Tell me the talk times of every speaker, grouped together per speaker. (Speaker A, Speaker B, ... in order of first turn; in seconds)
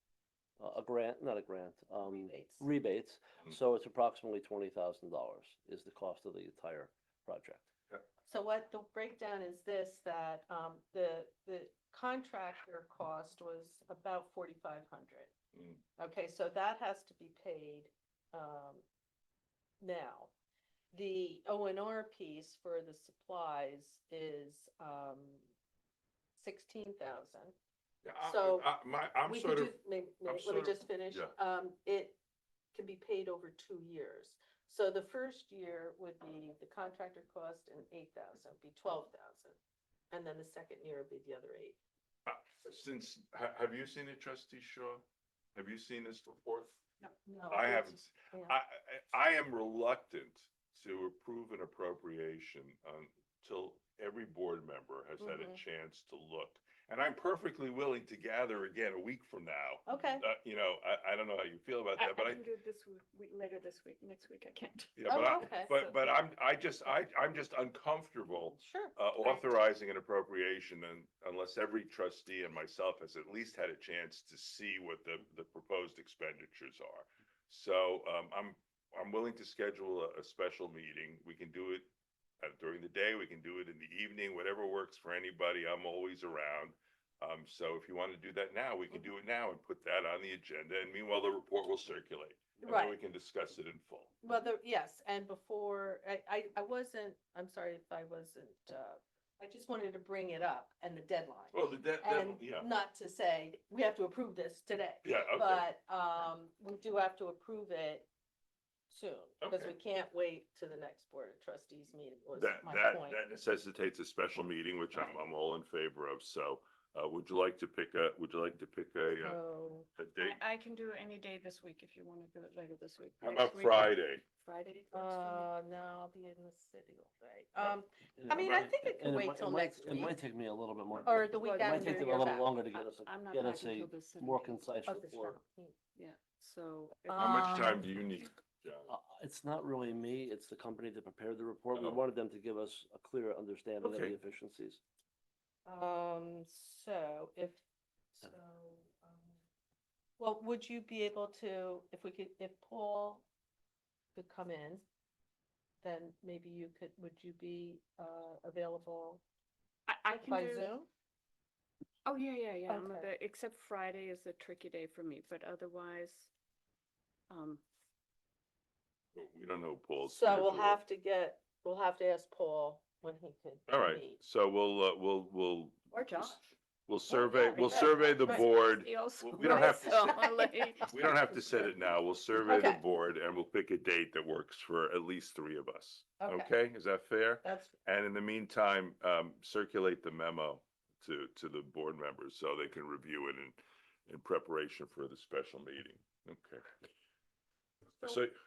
Speaker A: 0.6-7.7, 128.2-135.4, 138.9-144.8
Speaker B: 2.0-2.7, 8.3-15.3, 16.0-18.8, 19.8-20.3, 20.9-25.4, 26.4-27.5, 28.2-28.7, 29.2-32.2, 32.7-39.6, 40.1-41.8, 47.3-48.5, 55.2-55.6, 59.9-60.2, 65.1-65.8, 68.6-69.6, 92.6-93.0, 94.2-108.1, 108.9-113.2, 119.2-119.9, 124.9-130.2, 131.0-132.5, 134.8-135.8, 137.1-137.8, 145.7-147.6, 148.1-149.3, 150.2-153.2, 154.1-154.8, 155.8-159.2, 160.1-160.9, 162.7-163.1, 170.0-174.2, 177.5-178.5, 179.4-180.6, 182.4-182.8, 186.2-186.5, 187.4-187.7
Speaker C: 15.5-15.8, 28.0-31.3, 42.2-45.0, 45.5-46.8, 47.5-62.4, 65.0-81.9, 82.4-94.1, 101.5-102.7, 105.0-105.7, 109.4-109.7, 112.3-119.4, 120.0-120.4, 123.2-124.2, 137.2-138.9, 141.7-142.0, 143.8-144.1, 169.2-170.8, 173.7-176.3, 176.9-180.2, 180.8-196.6, 198.0-198.3
Speaker D: 62.0-66.0, 120.2-125.5, 131.4-134.7, 135.9-137.8, 159.9-160.7, 162.1-166.3, 167.3-167.6, 175.9-176.4, 177.1-180.9